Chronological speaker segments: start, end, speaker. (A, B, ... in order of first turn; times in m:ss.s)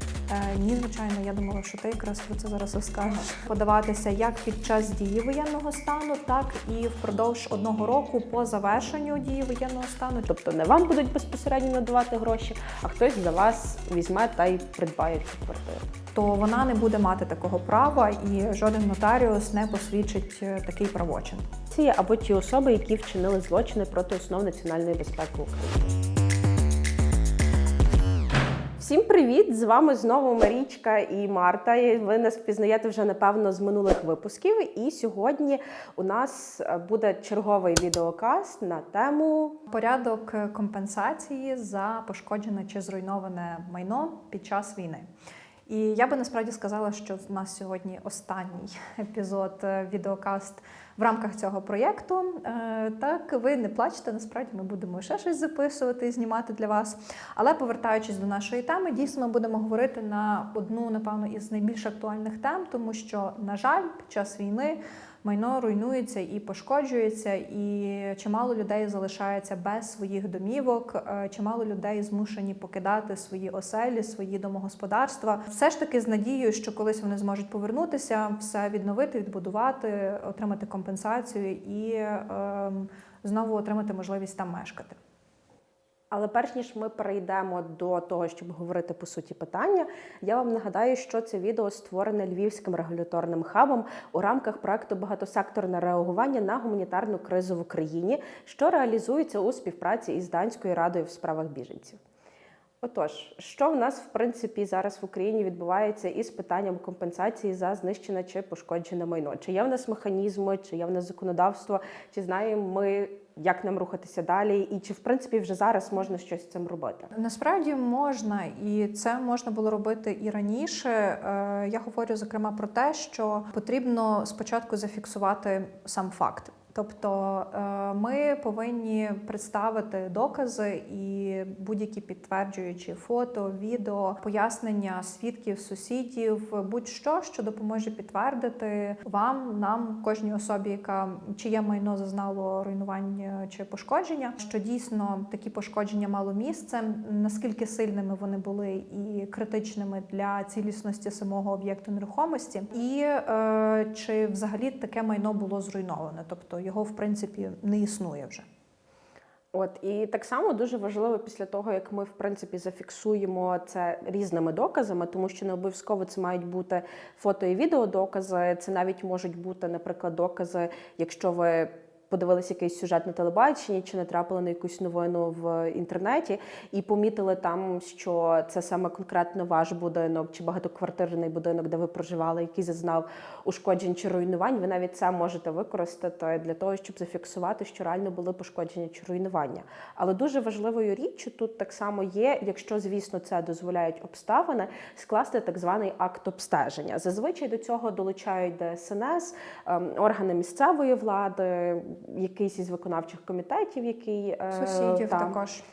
0:00.3-0:10.3 A
0:10.3-0:15.8 B
0:16.1-0:21.4 A
0:21.7-0:25.9 B
0:28.8-0:39.6 B
0:39.7-0:45.0 A
0:45.7-1:25.0 A
1:26.1-1:42.0 B
1:42.8-1:57.1 B
1:57.1-2:38.4 A
2:39.5-3:25.4 B
3:24.5-3:25.6 A